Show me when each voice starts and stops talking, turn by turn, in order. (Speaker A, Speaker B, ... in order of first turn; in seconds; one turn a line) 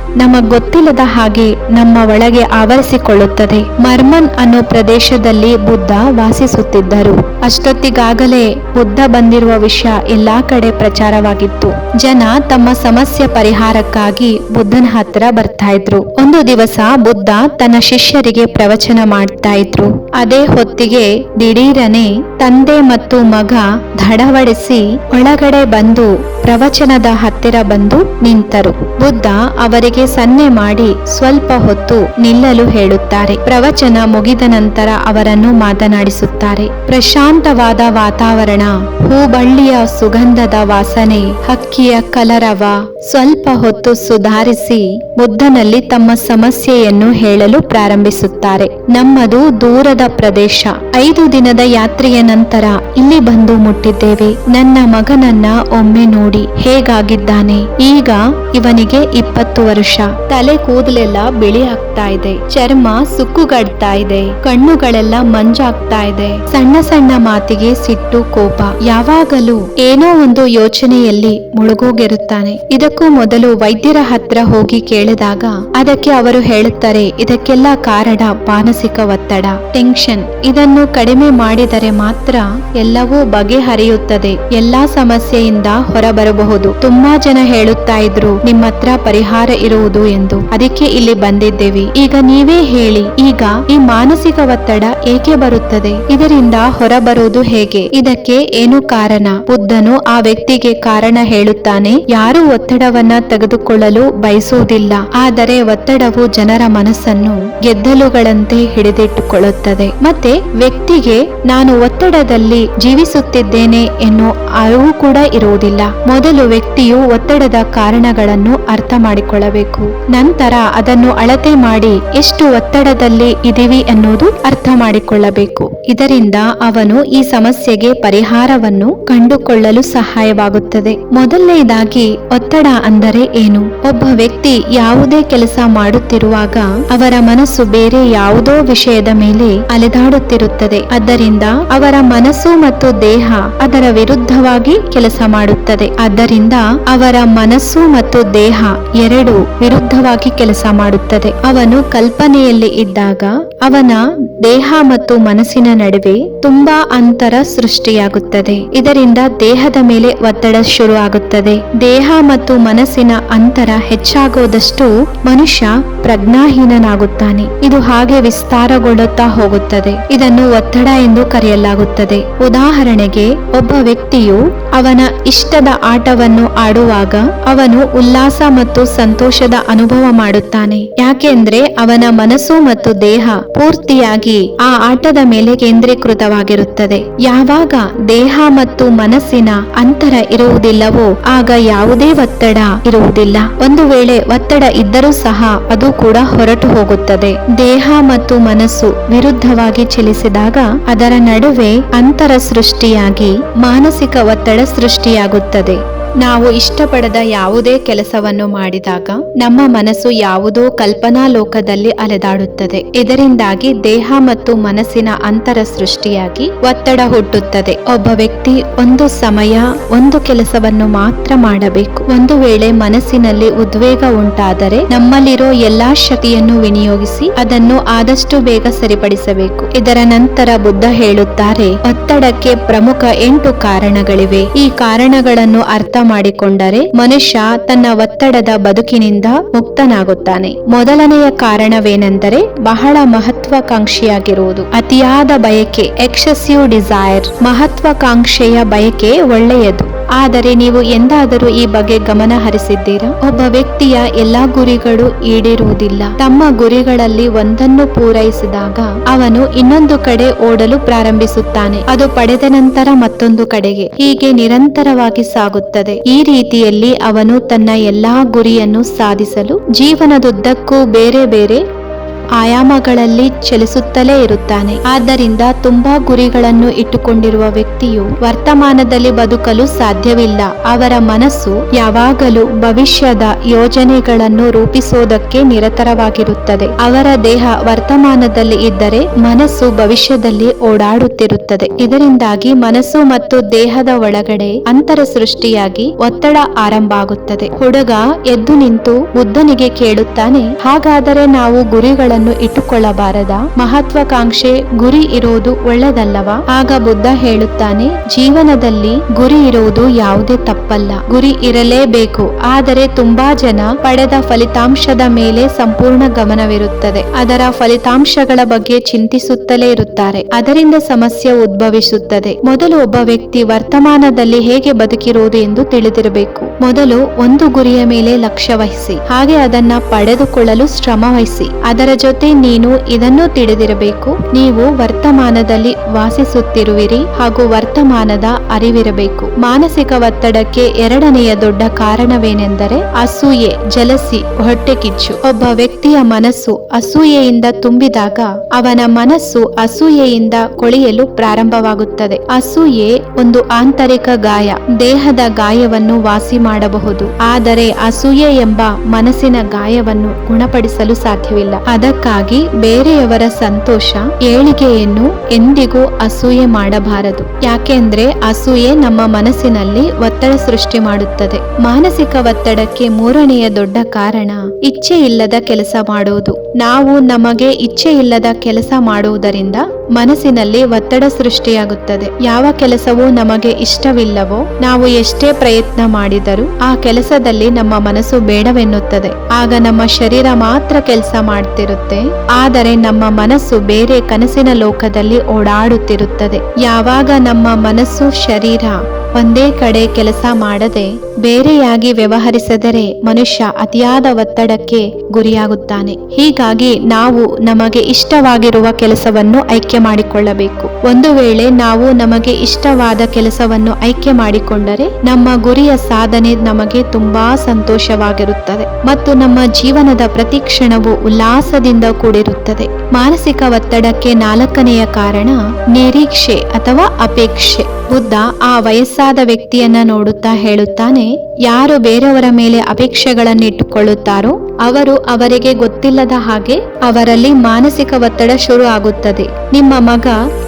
Speaker A: 0.2-271.6
Speaker A: 272.4-440.2